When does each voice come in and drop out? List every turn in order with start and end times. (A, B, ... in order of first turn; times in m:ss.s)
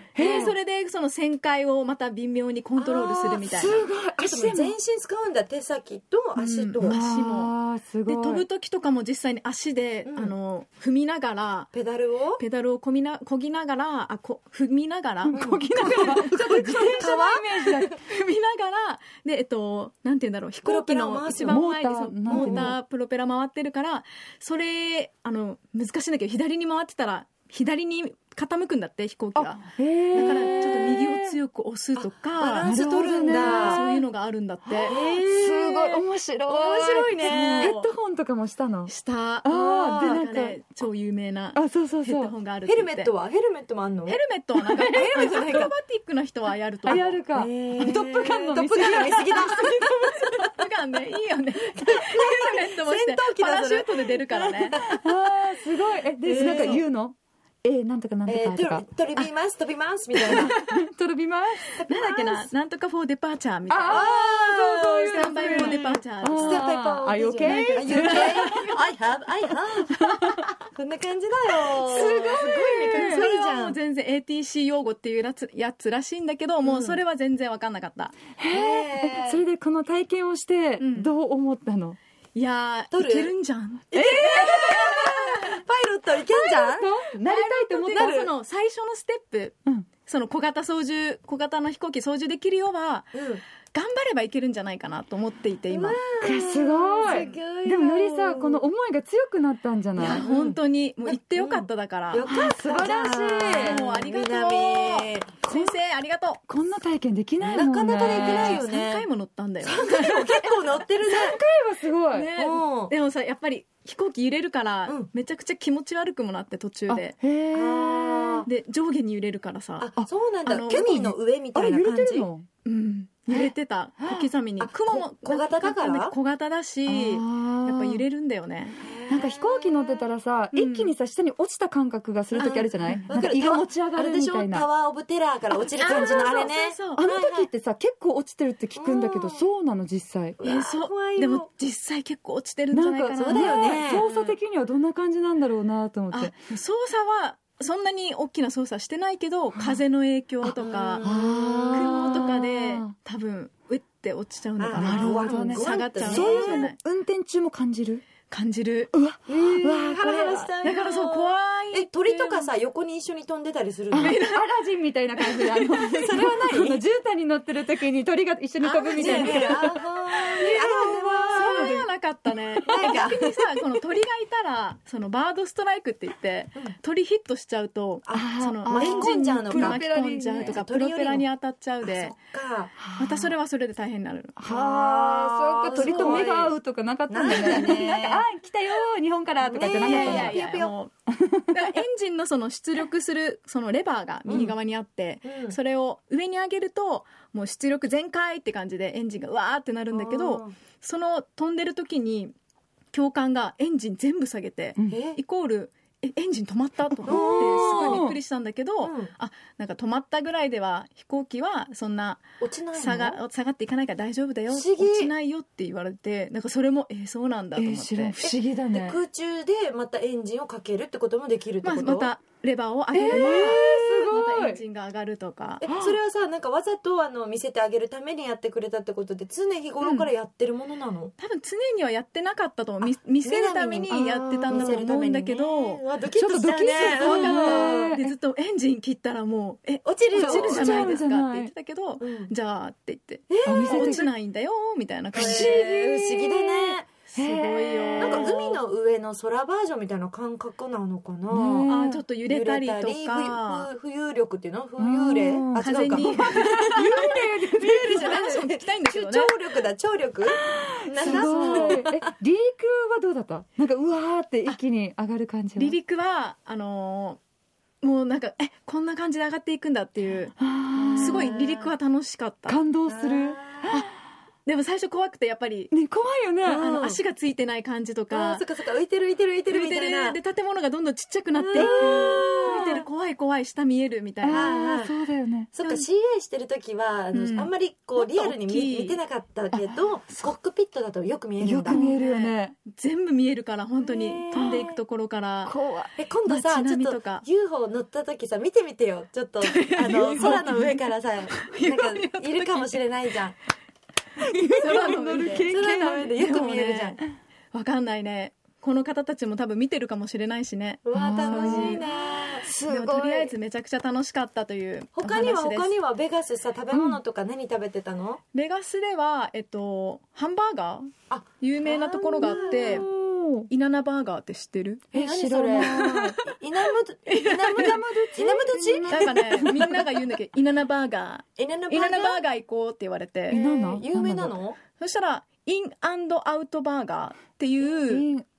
0:00.1-0:00.5 A
0:00.2-0:03.8 B
0:00.2-0:00.5 C
0:02.8-0:03.2 C
0:03.2-0:04.7 A
0:04.2-0:07.0 C
0:06.4-0:07.5 B
0:06.8-0:08.4 A
0:08.0-0:11.7 B
0:10.0-0:10.3 C
0:11.7-0:12.4 C
0:12.4-0:17.1 B
0:15.2-0:18.0 A
0:15.3-0:15.7 C
0:16.3-0:17.9 C
0:18.1-0:32.7 B
0:20.6-0:21.6 C
0:21.4-0:22.7 A
0:22.3-0:22.8 C
0:29.3-0:31.4 A
0:30.1-0:30.9 C
0:31.9-0:33.8 C
0:32.6-0:34.0 A
0:33.2-0:35.0 B
0:34.6-0:40.6 A
0:34.8-0:37.8 C
0:37.2-0:37.9 B
0:38.9-0:43.1 B
0:39.5-0:40.3 C
0:41.5-0:42.3 A
0:42.6-0:44.2 C
0:44.1-0:47.2 B
0:44.6-0:45.6 A
0:45.0-0:45.7 C
0:46.8-0:49.8 A
0:46.9-0:50.5 C
0:48.4-0:49.8 B
0:50.3-0:54.8 B
0:51.7-0:55.0 C
0:54.8-0:58.8 A
0:56.2-0:56.8 C
0:58.2-1:00.5 C
1:00.2-1:00.5 B
1:00.3-1:01.8 A
1:01.7-1:02.5 C
1:01.8-1:04.1 B
1:03.7-1:08.7 A
1:03.8-1:13.8 C
1:05.1-1:06.6 B
1:07.4-1:08.7 B
1:09.9-1:10.4 A
1:11.8-1:13.3 A
1:11.8-1:18.2 B
1:16.6-1:17.0 C
1:18.4-1:22.0 A
1:18.5-1:19.4 C
1:20.8-1:21.1 B
1:22.3-1:25.6 B
1:22.9-1:23.3 C
1:23.9-1:28.3 C
1:23.9-1:25.5 A
1:26.3-1:28.2 A
1:27.2-1:29.5 B
1:30.0-1:33.1 B
1:33.1-1:33.4 C
1:33.7-1:36.0 B
1:35.7-1:38.7 C
1:36.2-1:40.2 A
1:37.0-1:37.3 B
1:40.0-1:42.3 B
1:40.0-1:45.4 C
1:42.2-1:43.8 A
1:43.5-1:46.4 B
1:46.5-1:48.6 A
1:47.4-1:49.0 C
1:48.1-1:50.8 B
1:49.6-1:51.4 C
1:51.1-1:52.3 A
1:52.1-1:57.2 B
1:52.3-1:52.9 C
1:56.9-1:58.5 A
1:57.5-1:58.5 C
1:58.4-1:59.9 B
1:59.8-2:02.3 C
2:00.4-2:01.2 B
2:01.5-2:02.5 A
2:02.6-2:08.8 B
2:03.3-2:04.3 A
2:04.6-2:06.2 C
2:06.8-2:08.0 A
2:08.8-2:10.1 C
2:09.1-2:14.7 A
2:10.5-2:10.9 B
2:12.3-2:17.5 C
2:12.8-2:13.2 B
2:15.8-2:17.0 B
2:17.0-2:20.4 A
2:18.8-2:19.4 C
2:20.4-2:21.5 C
2:20.4-2:24.4 B
2:22.7-2:26.3 A
2:23.2-2:24.1 C
2:26.1-2:31.1 B
2:30.4-2:32.4 C
2:31.0-2:32.9 A
2:31.7-2:36.8 B
2:34.6-2:36.7 C
2:34.7-2:38.0 A
2:38.3-2:38.9 B
2:38.9-2:40.5 A
2:39.3-2:44.2 C
2:40.6-2:42.5 B
2:43.9-2:51.8 A
2:44.0-2:44.5 B
2:45.2-2:46.2 B
2:45.9-2:46.8 C
2:48.6-2:51.9 C
2:49.0-2:49.3 B
2:50.4-3:02.2 B
2:52.6-2:53.2 A
2:52.6-2:53.7 C
2:58.0-2:59.8 C
2:58.1-3:00.6 A
3:00.4-3:01.3 C
3:01.8-3:02.7 C
3:02.8-3:03.3 A
3:03.0-3:04.4 B
3:04.4-3:10.4 A
3:04.5-3:06.6 C
3:05.8-3:06.3 B
3:07.1-3:08.2 C
3:09.4-3:10.7 C
3:09.8-3:10.9 B
3:11.1-3:11.5 A
3:11.5-3:22.3 B
3:14.3-3:14.6 C
3:15.2-3:15.6 C
3:19.9-3:20.5 C
3:22.9-3:32.2 B
3:24.9-3:25.2 C
3:26.9-3:28.2 A
3:27.0-3:28.1 C
3:28.8-3:29.1 C
3:32.4-3:33.2 C
3:32.7-3:38.2 B
3:34.5-3:35.1 C
3:37.5-3:39.0 A
3:38.2-3:42.1 C
3:41.6-3:45.6 B
3:42.9-3:44.6 A
3:43.1-3:44.1 C
3:45.6-3:51.1 C
3:45.6-3:46.0 A
3:49.8-3:50.1 B
3:51.2-3:55.8 B
3:52.8-3:57.9 C
3:53.9-3:54.8 A
3:56.1-3:58.1 A
3:56.8-4:06.0 B
3:59.8-4:01.0 C
4:00.1-4:01.5 A
4:02.0-4:02.3 C
4:03.3-4:04.1 C
4:03.4-4:04.1 A
4:05.1-4:06.9 C
4:05.1-4:08.4 A
4:07.1-4:08.6 B
4:08.0-4:22.0 C
4:11.3-4:12.0 A
4:11.6-4:13.7 B
4:14.8-4:18.4 A
4:15.6-4:16.6 B
4:17.8-4:19.3 B
4:20.6-4:25.8 A
4:21.0-4:21.7 B
4:25.6-4:27.2 B
4:27.8-4:30.3 B
4:30.4-4:31.4 A
4:30.8-4:31.7 C
4:31.0-4:32.6 B
4:32.5-4:33.9 A
4:32.8-4:33.8 C
4:34.4-4:35.7 B
4:35.7-4:36.7 A
4:36.4-4:37.0 C
4:36.5-4:38.5 B
4:38.1-4:40.2 C
4:39.5-4:44.6 B
4:41.3-4:42.8 C
4:41.5-4:42.8 A
4:44.2-4:45.5 A
4:44.3-4:44.9 C
4:45.5-4:51.8 C
4:47.1-4:49.0 B
4:49.5-4:50.3 A
4:51.4-4:52.5 A
4:51.7-4:55.5 B
4:53.8-4:54.8 C
4:55.4-4:56.0 A
4:56.0-5:03.4 C
4:56.2-4:57.2 B
4:59.4-5:02.8 B
4:59.9-5:00.6 A
5:04.3-5:06.2 A
5:04.5-5:05.5 B
5:05.4-5:07.0 C
5:06.2-5:07.0 B
5:07.5-5:11.8 B
5:10.8-5:12.5 C
5:10.9-5:11.8 A
5:12.4-5:13.3 A
5:12.6-5:15.8 B
5:14.9-5:18.2 C
5:16.7-5:17.0 A
5:18.3-5:22.9 B
5:21.1-5:22.9 C
5:22.2-5:23.5 A
5:23.5-5:24.9 B
5:24.9-5:26.2 A
5:24.9-5:29.3 C
5:25.5-5:26.1 B
5:27.1-5:27.8 B
5:27.5-5:29.9 A
5:28.9-5:33.4 B
5:31.4-5:32.2 C
5:33.3-5:34.6 C
5:33.3-5:34.4 A
5:34.8-5:38.1 B
5:37.9-5:38.2 A